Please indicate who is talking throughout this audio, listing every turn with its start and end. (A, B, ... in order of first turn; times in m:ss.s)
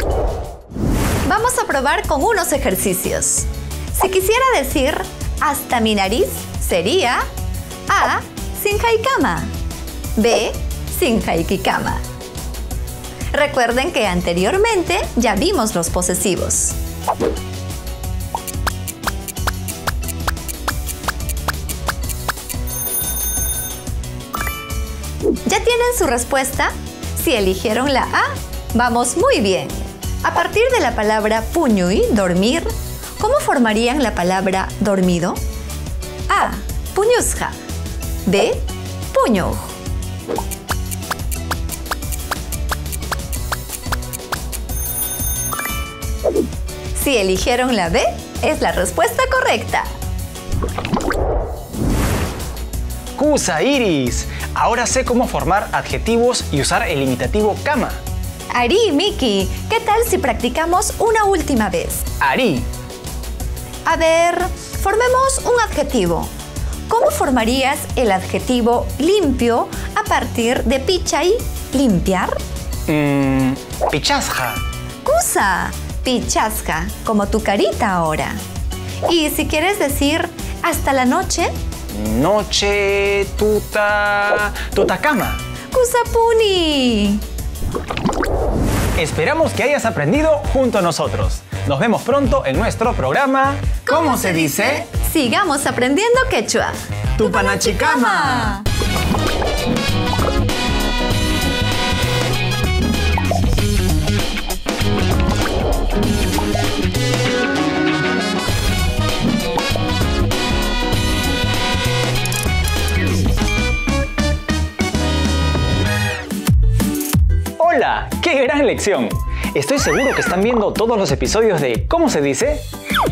0:01.2-0:07.2 A
0:07.9-0:09.5 A
0:10.2-0:12.0 A
0:13.3-0:16.8 A
0:25.4-0:35.4 A
0:36.3-0:37.6 A
0:38.2-0:39.7 A
0:47.0-0:49.9 A
0:53.2-0:58.0 B
0:58.5-1:02.1 A
1:02.2-1:02.6 B
1:03.9-1:06.3 A
1:06.9-1:12.4 A
1:12.9-1:14.6 B
1:15.0-1:18.4 A
1:19.1-1:21.5 A
1:21.9-1:25.4 B
1:25.7-1:27.2 A
1:29.0-1:34.8 B
1:33.9-1:38.7 A
1:37.2-1:38.6 B
1:57.6-2:02.6 B